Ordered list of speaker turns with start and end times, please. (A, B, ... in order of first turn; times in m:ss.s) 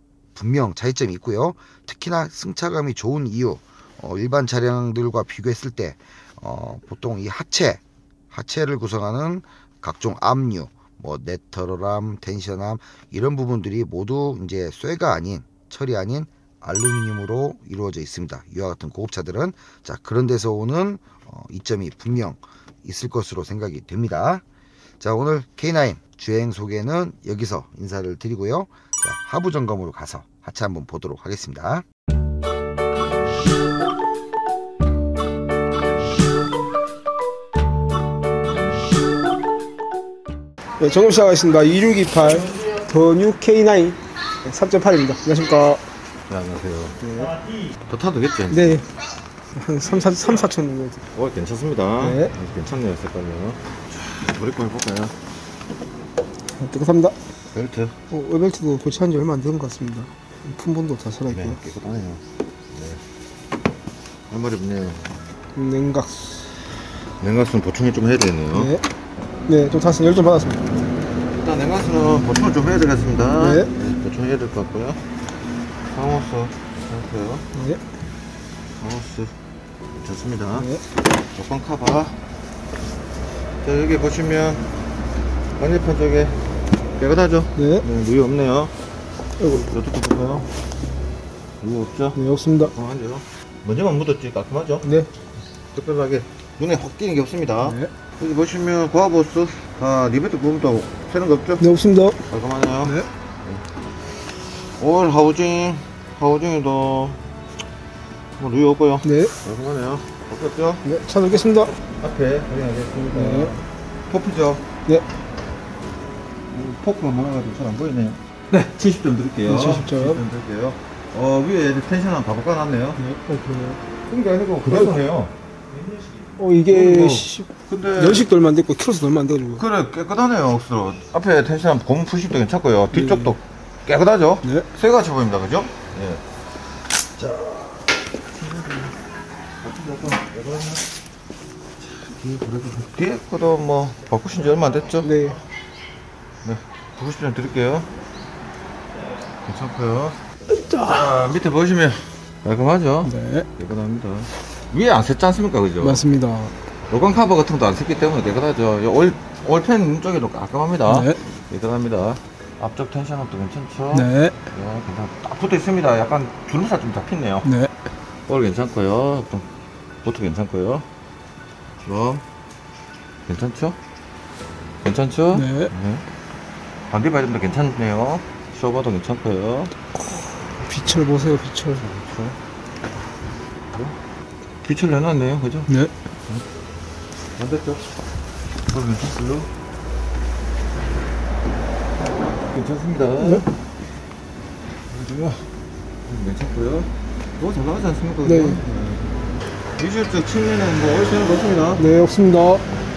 0:00.3-0:24.4 A
0:25.0-0:31.8 A
0:40.8-0:45.8 B
0:46.3-0:47.0 C
0:47.0-0:47.4 B
0:47.9-0:48.8 C
0:48.5-0:48.8 B
0:49.5-0:51.0 B
0:51.1-0:55.1 C
0:52.0-0:52.3 B
0:56.6-0:57.2 B
0:57.5-0:57.9 C
0:58.1-1:01.6 B
1:01.3-1:02.2 C
1:02.7-1:03.0 C
1:04.3-1:05.2 C
1:05.6-1:06.6 B
1:07.2-1:08.7 C
1:08.5-1:08.8 B
1:09.5-1:10.7 B
1:11.3-1:15.0 C
1:13.4-1:13.7 B
1:15.9-1:17.4 C
1:17.5-1:17.8 B
1:18.8-1:19.3 C
1:19.9-1:20.7 C
1:20.6-1:20.8 B
1:21.3-1:22.2 C
1:23.6-1:24.7 C
1:25.6-1:26.4 C
1:27.0-1:28.7 C
1:27.6-1:27.8 B
1:29.4-1:29.7 B
1:29.7-1:30.5 C
1:31.6-1:34.9 C
1:32.1-1:32.7 B
1:34.8-1:35.1 B
1:35.7-1:41.7 C
1:37.6-1:37.9 B
1:41.6-1:42.2 B
1:42.3-1:43.6 C
1:42.8-1:43.1 B
1:44.6-1:47.2 C
1:48.4-1:50.8 C
1:49.0-1:49.3 B
1:50.8-1:51.8 B
1:51.9-1:54.6 C
1:53.1-1:53.5 B
1:56.5-2:03.0 C
1:59.5-2:00.2 B
2:03.0-2:03.8 B
2:04.1-2:05.3 C
2:04.7-2:04.9 B
2:06.4-2:09.6 B
2:06.7-2:08.3 C
2:09.5-2:16.2 C
2:12.9-2:13.4 B
2:17.2-2:17.5 C
2:18.4-2:18.9 C
2:19.6-2:20.8 C
2:22.0-2:25.1 C
2:25.0-2:25.4 B
2:26.4-2:27.9 C
2:29.4-2:30.2 C
2:30.5-2:31.1 B
2:30.8-2:36.0 C
2:33.0-2:33.5 B
2:35.8-2:36.5 B
2:36.9-2:47.5 C
2:40.8-2:41.2 B
2:43.9-2:44.5 B
2:47.4-2:47.7 B
2:48.3-2:49.5 C
2:50.0-2:50.9 C
2:51.8-2:52.2 C
2:53.2-2:53.8 C
2:54.8-2:56.0 C
2:55.3-2:55.7 B
2:56.9-2:59.7 C
3:00.0-3:02.0 B
3:04.6-3:05.7 C
3:07.4-3:07.9 C
3:08.7-3:09.5 C
3:12.2-3:13.5 C
3:13.2-3:13.4 B
3:14.9-3:15.5 C
3:16.0-3:19.1 C
3:18.2-3:18.6 B
3:19.8-3:21.8 C
3:21.8-3:22.7 B